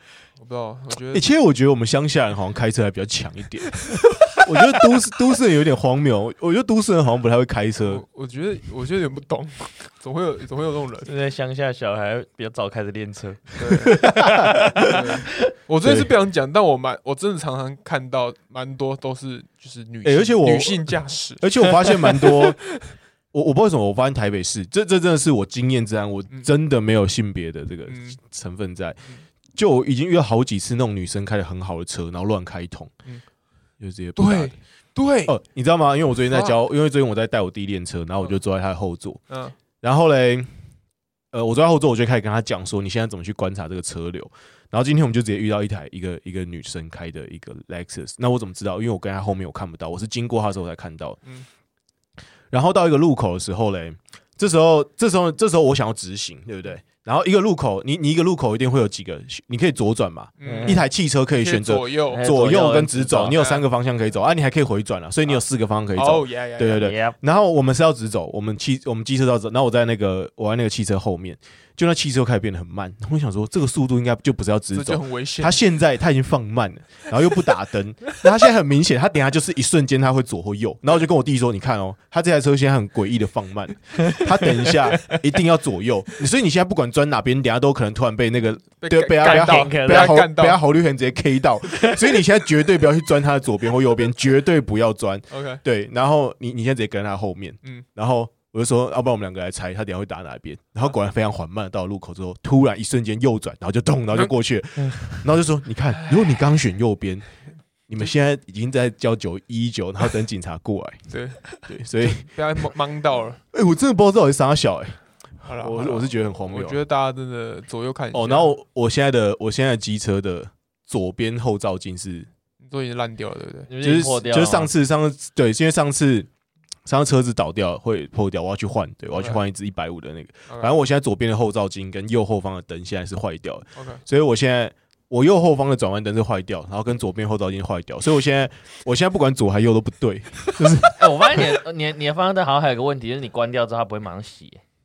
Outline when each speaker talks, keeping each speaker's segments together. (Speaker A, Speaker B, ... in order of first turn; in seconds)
Speaker A: 0.4-1.2, 7.8-11.1, 13.6-14.1, 14.8-22.4, 27.9-28.2, 34.2-35.3, 39.3-39.6, 60.4-62.2, 63.3-63.6, 66.0-66.9, 74.7-75.6, 88.8-90.6, 95.3-95.6, 106.0-106.3, 111.1-113.4, 115.5-118.5, 122.6-123.7, 129.2-129.4, 133.8-134.0
Speaker B: 1.1-8.0, 13.9-14.9, 15.8-16.1, 20.0-22.6, 23.3-29.0, 29.6-32.9, 33.8-34.5, 35.3-39.2, 39.8-40.5, 41.3-51.2, 52.5-107.3, 107.9-111.1, 111.6-112.3, 113.5-116.8, 118.1-122.3, 123.8-126.3, 126.9-141.5
Speaker C: 11.1-15.1, 60.4-60.8, 62.1-63.4, 66.8-67.2, 89.2-90.2, 91.7-92.2, 123.7-124.7, 140.9-144.6